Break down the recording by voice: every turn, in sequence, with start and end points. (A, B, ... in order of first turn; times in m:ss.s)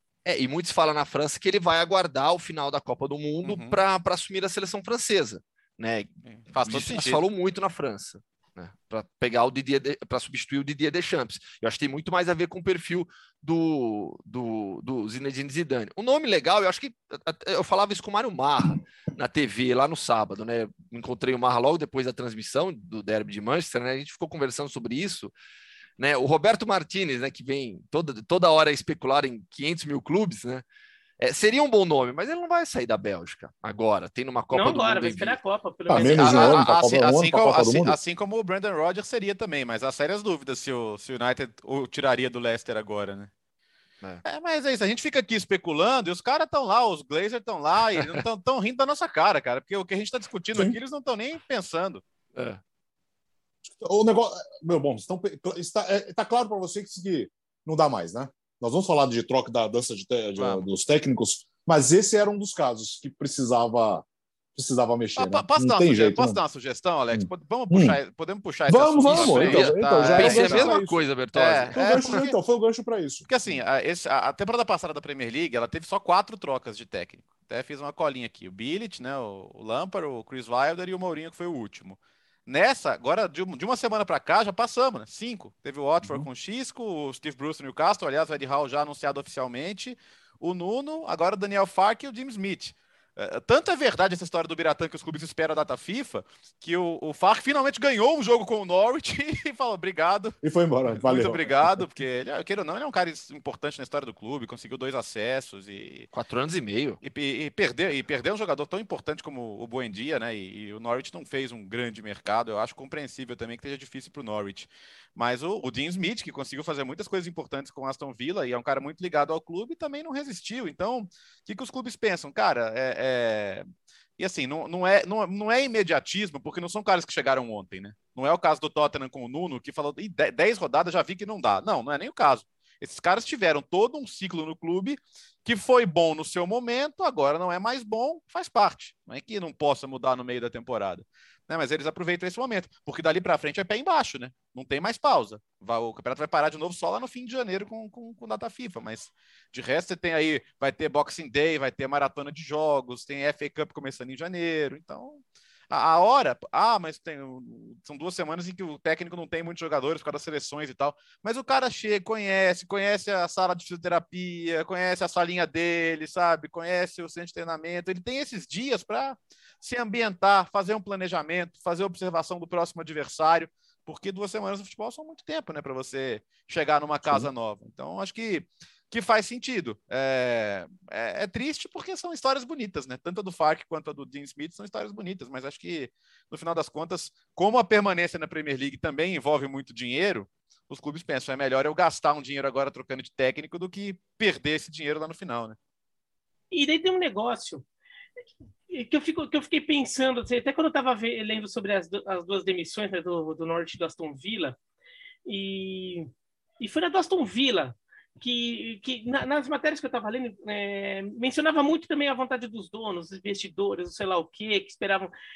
0:00.2-0:06.1 A
0:03.4-0:03.8 B
0:06.2-0:07.2 B
0:06.6-0:25.3 A
0:26.0-0:30.6 A
0:31.2-0:35.4 A
0:34.5-0:36.5 C
0:35.9-0:38.0 D
0:35.9-0:36.7 A
0:36.0-0:43.3 B
0:44.2-0:52.0 B
0:47.9-0:48.2 A
0:52.3-0:52.6 A
0:53.7-1:06.4 D
1:00.4-1:00.6 B
1:05.2-1:10.8 B
1:07.1-1:08.0 D
1:08.7-1:11.0 D
1:09.1-1:12.3 A
1:11.3-1:12.4 B
1:11.7-1:13.2 D
1:13.3-1:46.1 B
1:40.4-1:41.8 D
1:46.1-1:47.0 A
1:47.0-2:03.6 B
2:04.2-3:15.6 B
3:16.5-3:17.6 C
3:18.7-3:24.6 C
3:25.2-3:26.1 C
3:26.6-3:35.1 C